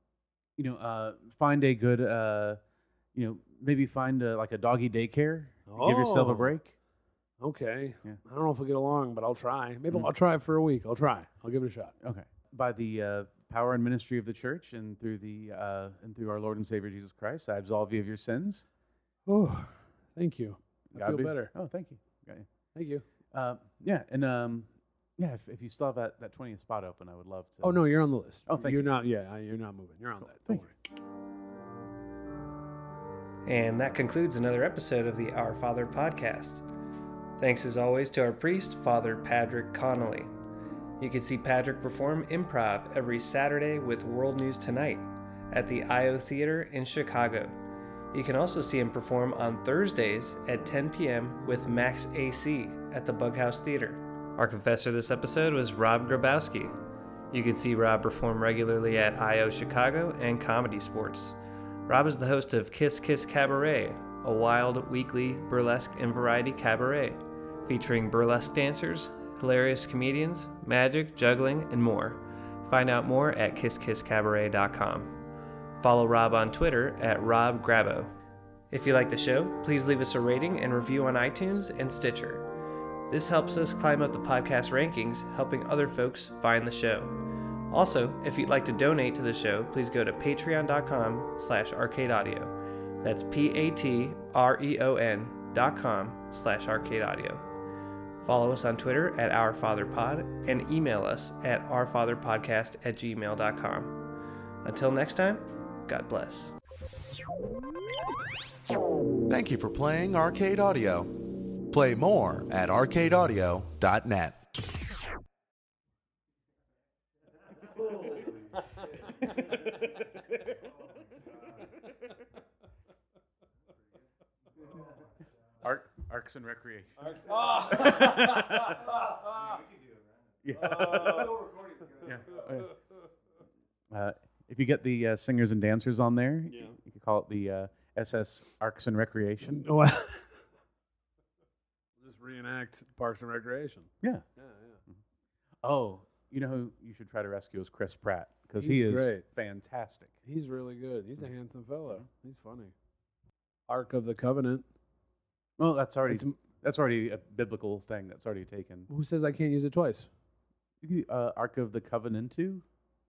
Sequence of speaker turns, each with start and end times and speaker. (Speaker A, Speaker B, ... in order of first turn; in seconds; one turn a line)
Speaker A: 0.6-2.6
Speaker A: 3.1-6.7
Speaker B: 5.7-6.5
Speaker B: 7.4-11.9
Speaker A: 12.0-18.6
Speaker B: 19.3-21.5
Speaker A: 20.9-22.5
Speaker B: 22.7-23.0
Speaker A: 23.3-27.8
Speaker B: 27.6-30.8
Speaker A: 28.5-28.9
Speaker C: 33.5-36.6
Speaker C: 37.4-40.3
Speaker C: 41.0-47.5
Speaker C: 48.1-56.8
Speaker C: 57.3-61.4
Speaker C: 61.9-75.2
Speaker C: 75.8-78.1
Speaker C: 78.7-82.5
Speaker C: 83.1-87.2
Speaker C: 87.7-97.4
Speaker C: 98.2-104.0
Speaker C: 104.6-106.5
Speaker D: 109.3-114.4
Speaker A: 125.6-128.4
Speaker B: 127.0-129.6
Speaker A: 130.4-132.7
Speaker B: 130.6-131.5
Speaker A: 133.9-139.7
Speaker B: 136.5-136.8
Speaker B: 139.5-140.3
Speaker B: 142.0-144.8
Speaker A: 145.6-150.1
Speaker B: 148.6-149.2
Speaker B: 150.2-152.7
Speaker B: 153.7-154.7
Speaker A: 155.6-158.9
Speaker B: 156.1-156.4
Speaker B: 158.9-160.1
Speaker A: 160.8-162.6